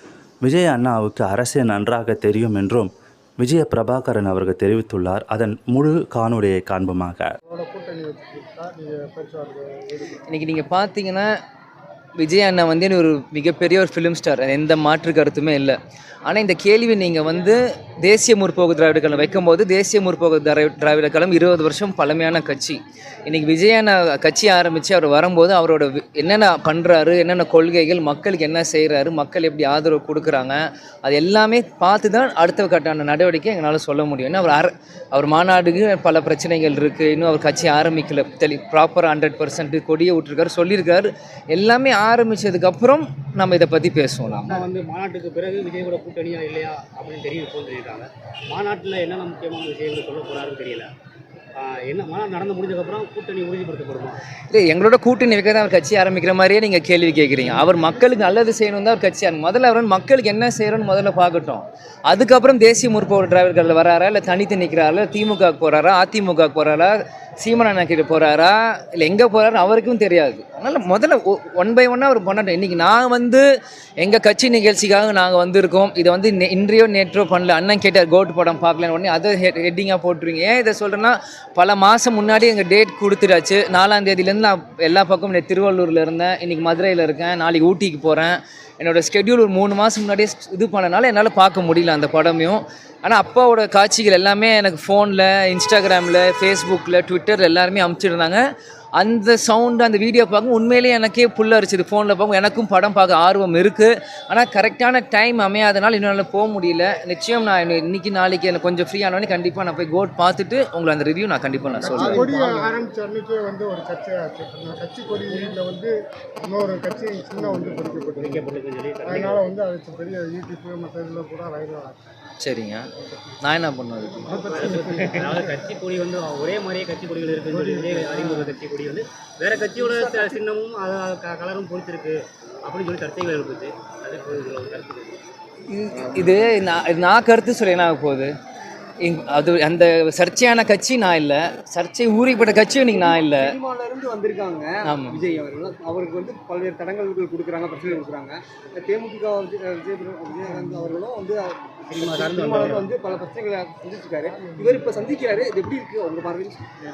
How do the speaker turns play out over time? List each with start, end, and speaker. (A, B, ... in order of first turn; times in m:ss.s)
0:00.4-0:07.4 A
0:07.4-0:10.2 B
0:10.3-0:11.3 C
0:12.2-0:44.6 C
0:44.5-0:50.9 D
0:51.6-0:54.2 D
0:54.5-1:13.5 C
1:14.0-1:38.4 C
1:39.0-1:52.3 C
1:51.8-1:52.8 E
1:51.8-2:02.0 B
1:58.2-1:59.5 D
2:02.4-2:02.9 C
2:03.4-2:04.3 C
2:04.3-2:05.5 B
2:04.3-2:15.2 D
2:07.5-2:08.5 B
2:09.8-2:10.4 E
2:15.7-2:18.3 C
2:19.0-2:23.6 C
2:22.8-2:36.7 E
2:24.8-2:25.2 C
2:31.9-2:32.9 D
2:34.3-2:35.0 B